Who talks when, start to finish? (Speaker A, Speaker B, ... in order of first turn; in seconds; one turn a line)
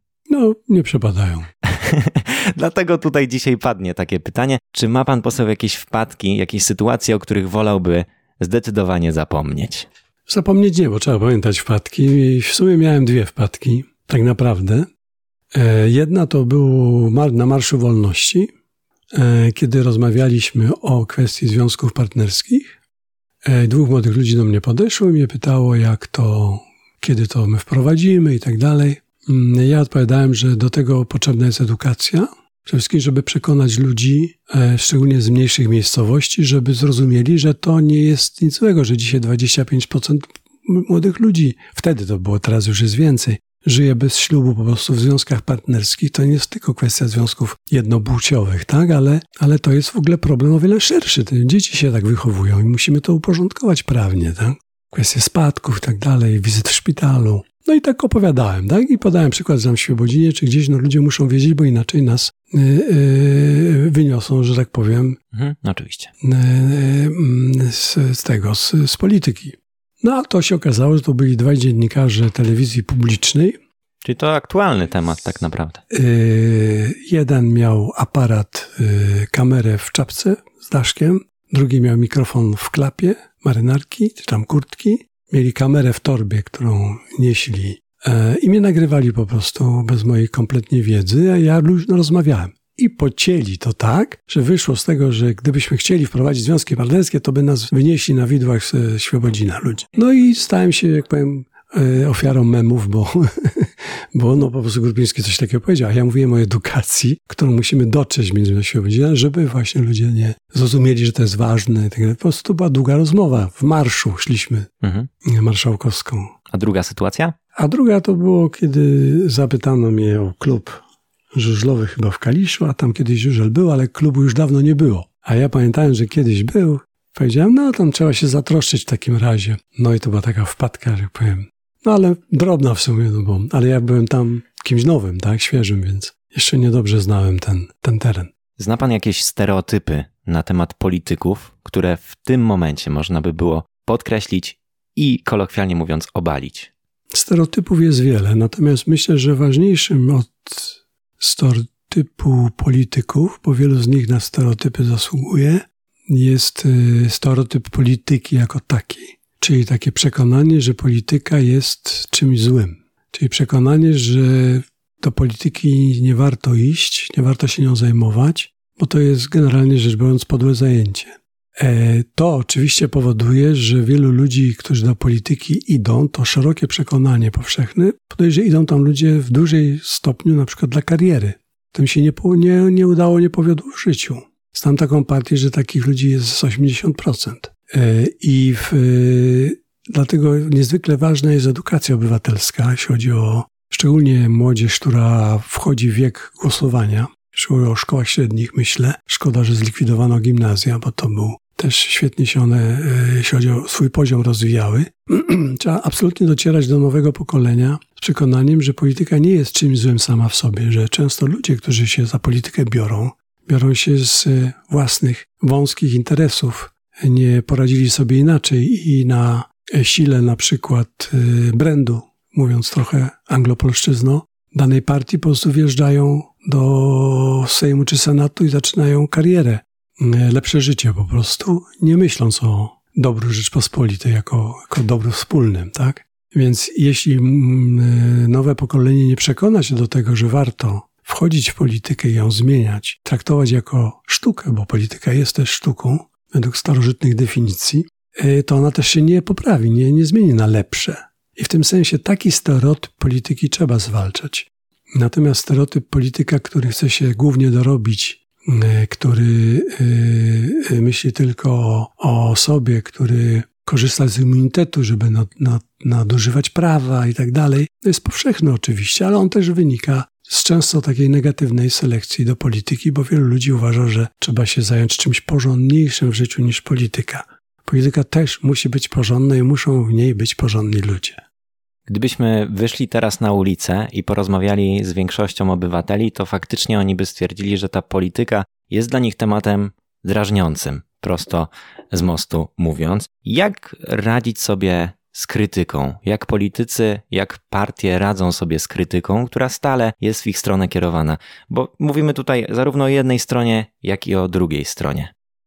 Speaker A: 0.3-1.5
Speaker B: 1.7-9.9
Speaker A: 10.3-14.9
Speaker A: 15.5-18.5
Speaker A: 19.1-22.8
Speaker A: 23.4-65.2
Speaker B: 65.3-66.1
Speaker A: 66.2-73.6
Speaker B: 74.0-75.8
Speaker A: 75.9-114.7
Speaker B: 114.8-115.1
Speaker A: 115.2-116.3
Speaker B: 116.5-117.3
Speaker A: 117.5-120.8
Speaker A: 121.3-138.3
Speaker B: 138.6-146.7
Speaker A: 147.1-281.2
Speaker B: 281.9-305.1